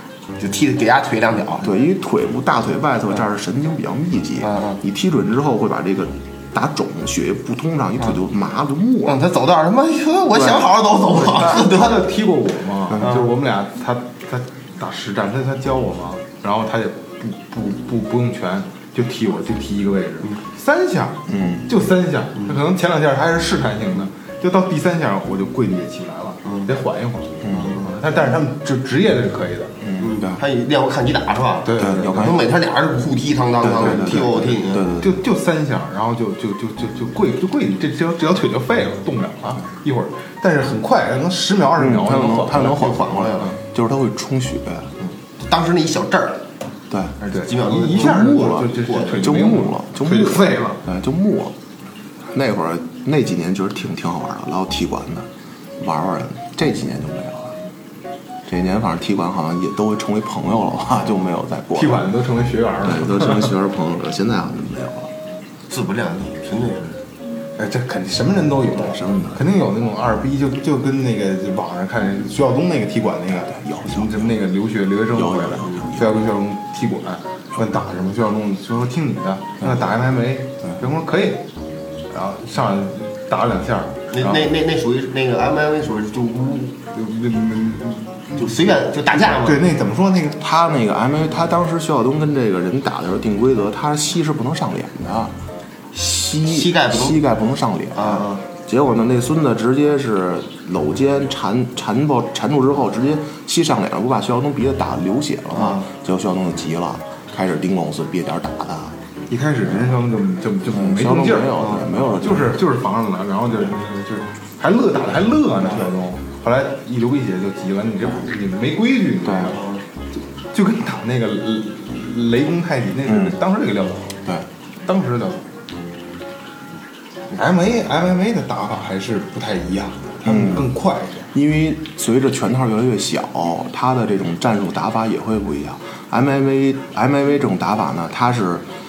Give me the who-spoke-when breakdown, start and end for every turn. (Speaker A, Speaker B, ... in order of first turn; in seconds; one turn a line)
Speaker A: 0.4-1.7
Speaker B: 1.6-9.2
Speaker A: 4.4-4.8
Speaker A: 9.1-12.1
Speaker B: 10.3-10.7
Speaker C: 11.1-29.8
Speaker A: 13.0-13.3
Speaker B: 21.3-21.7
Speaker B: 27.4-27.8
Speaker A: 27.5-27.9
Speaker B: 29.8-30.4
Speaker A: 30.0-34.9
Speaker C: 31.6-32.4
Speaker B: 31.8-32.4
Speaker B: 33.6-35.2
Speaker C: 33.8-34.4
Speaker C: 35.0-43.5
Speaker B: 41.8-44.9
Speaker A: 42.5-43.5
Speaker A: 45.4-46.5
Speaker B: 46.9-47.2
Speaker C: 47.2-50.8
Speaker A: 47.3-49.2
Speaker B: 47.9-51.5
Speaker B: 52.3-55.3
Speaker B: 55.8-57.6
Speaker B: 58.5-62.1
Speaker C: 61.8-63.6
Speaker B: 62.8-65.1
Speaker A: 65.7-67.0
Speaker C: 67.6-81.5
Speaker B: 68.8-69.4
Speaker B: 73.4-74.3
Speaker B: 75.1-76.1
Speaker C: 82.1-84.3
Speaker A: 84.1-86.9
Speaker C: 86.9-88.5
Speaker A: 88.3-89.6
Speaker C: 89.2-90.4
Speaker B: 90.4-95.3
Speaker B: 95.9-109.0
Speaker A: 96.5-97.2
Speaker A: 98.0-98.4
Speaker A: 105.5-105.8
Speaker C: 109.3-124.2
Speaker B: 110.7-112.6
Speaker B: 119.2-119.5
Speaker B: 123.1-123.4
Speaker C: 124.8-125.5
Speaker C: 127.3-131.3
Speaker B: 130.2-130.7
Speaker B: 131.3-138.7